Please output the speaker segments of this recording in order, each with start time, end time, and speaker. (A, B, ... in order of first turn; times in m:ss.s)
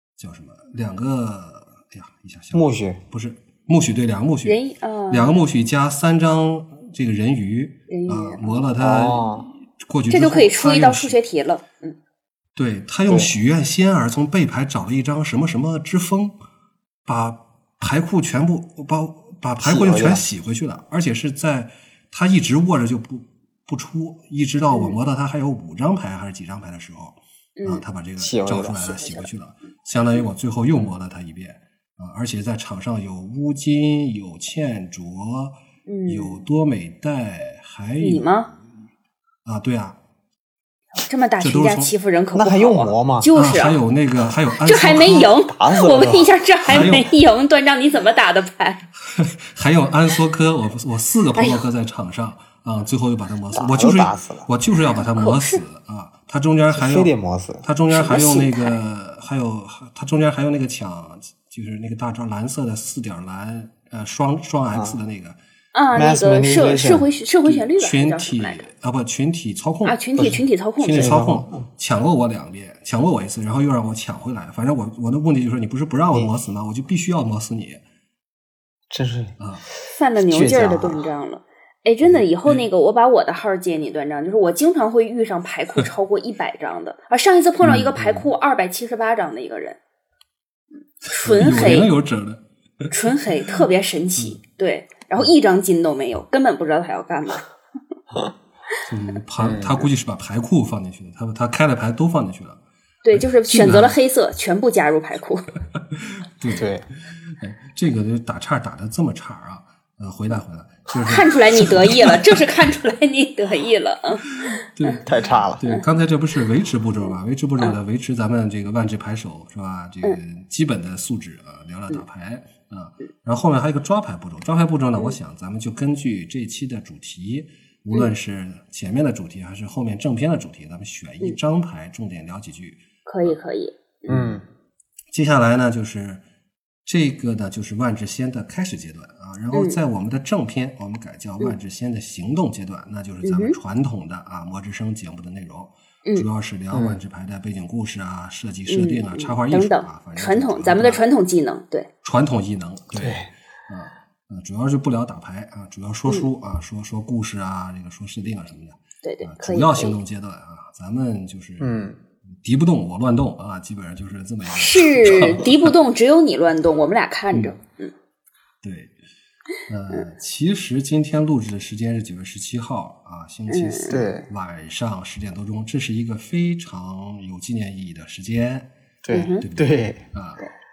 0:00.2-0:11.2 A
0:02.5-0:03.0 B
0:04.4-0:05.4 C
0:07.9-0:08.6 C
0:08.8-0:09.5 B
0:10.1-0:11.9 C
0:12.6-0:16.4 A
0:13.1-0:13.3 B
0:17.0-0:38.6 A
0:19.6-0:20.3 B
0:24.7-0:25.0 C
0:27.6-0:27.8 C
0:28.2-0:29.1 B
0:28.9-0:29.3 C
0:35.9-0:36.4 C
0:38.0-0:38.5 C
0:39.4-0:40.0 A
0:41.0-0:43.8 C
0:41.4-0:41.9 A
0:42.3-0:43.3 B
0:43.3-0:45.3 A
0:44.6-0:48.8 C
0:45.3-0:46.3 B
0:46.6-0:47.1 A
0:49.1-0:57.1 A
0:51.4-0:51.6 C
0:53.5-0:54.5 B
0:54.9-0:55.6 C
0:56.7-0:57.6 B
0:57.6-1:05.4 A
0:57.9-0:58.8 C
1:05.7-1:08.7 C
1:05.9-1:07.1 B
1:07.4-1:17.8 A
1:09.8-1:11.1 C
1:11.0-1:11.6 B
1:18.9-1:19.3 B
1:19.4-1:19.6 A
1:19.9-1:29.8 C
1:20.2-1:21.0 B
1:22.0-1:22.6 A
1:27.6-1:28.2 A
1:31.1-1:32.9 A
1:31.1-1:31.9 C
1:32.9-1:37.4 C
1:38.9-1:42.6 A
1:39.4-1:39.9 B
1:43.0-1:45.5 C
1:43.2-1:44.0 A
1:45.9-1:52.4 A
1:46.6-1:46.8 B
1:51.0-1:54.9 C
1:54.4-1:55.0 A
1:55.0-1:55.6 B
1:55.6-2:13.4 A
2:13.0-2:14.2 C
2:14.1-2:14.4 B
2:15.1-2:16.2 A
2:16.8-2:31.0 A
2:19.5-2:19.8 C
2:23.2-2:23.6 C
2:26.7-2:27.0 B
2:28.7-2:31.9 C
2:32.0-2:41.7 A
2:33.0-2:33.3 B
2:39.0-2:40.0 C
2:41.6-2:42.0 B
2:42.4-2:45.7 A
2:44.5-2:47.9 C
2:47.3-2:47.6 A
2:48.6-2:48.9 A
2:49.7-2:58.7 A
2:53.5-2:54.0 C
2:53.9-2:54.3 B
2:59.0-3:00.0 B
2:59.1-2:59.4 C
2:59.4-3:00.4 A